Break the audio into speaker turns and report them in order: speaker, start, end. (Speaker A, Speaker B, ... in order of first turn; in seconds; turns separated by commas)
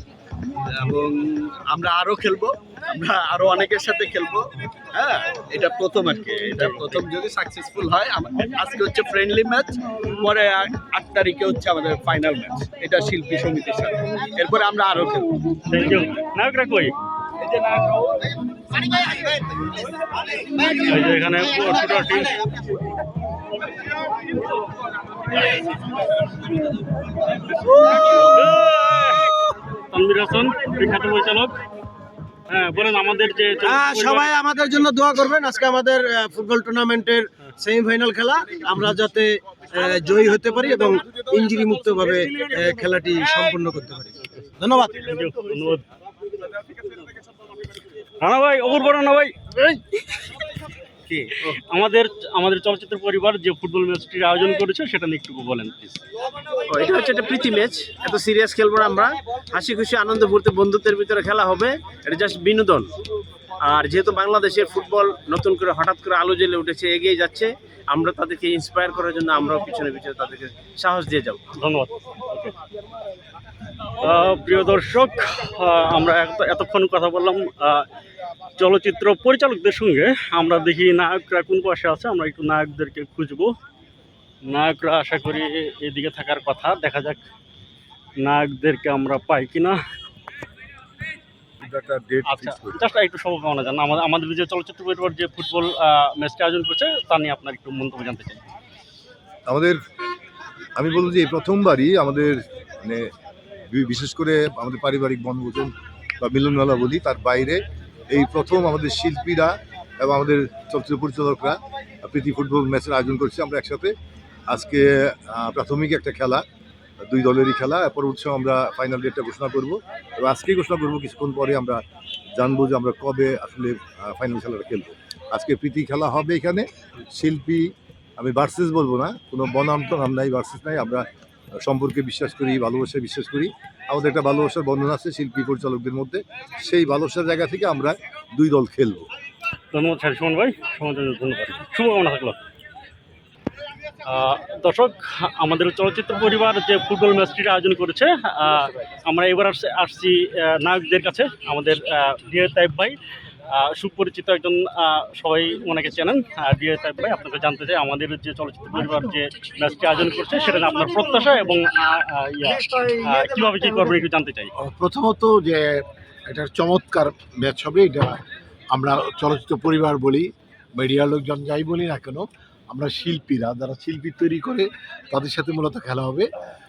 Speaker A: 0.7-15.3, Speaker B: 15.7-16.9, Speaker B: 20.6-22.4, Speaker B: 27.9-31.6, Speaker B: 32.5-34.3, Speaker C: 33.7-45.0, Speaker B: 45.0-45.8, Speaker B: 48.2-50.2, Speaker B: 51.4-56.0, Speaker D: 56.7-62.9, Speaker D: 63.6-71.4, Speaker B: 71.5-72.5, Speaker B: 74.0-77.8, Speaker B: 78.6-83.5, Speaker B: 84.4-87.2, Speaker B: 88.2-89.8, Speaker E: 91.6-92.8, Speaker B: 92.2-98.4, Speaker E: 99.5-99.8, Speaker E: 100.8-103.1, Speaker E: 103.7-113.9, Speaker E: 114.5-116.4, Speaker E: 117.1-121.8, Speaker E: 122.3-131.0, Speaker E: 131.6-139.1, Speaker B: 139.7-142.4, Speaker B: 144.1-153.0, Speaker B: 153.5-164.5, Speaker F: 164.6-168.2, Speaker F: 168.7-176.3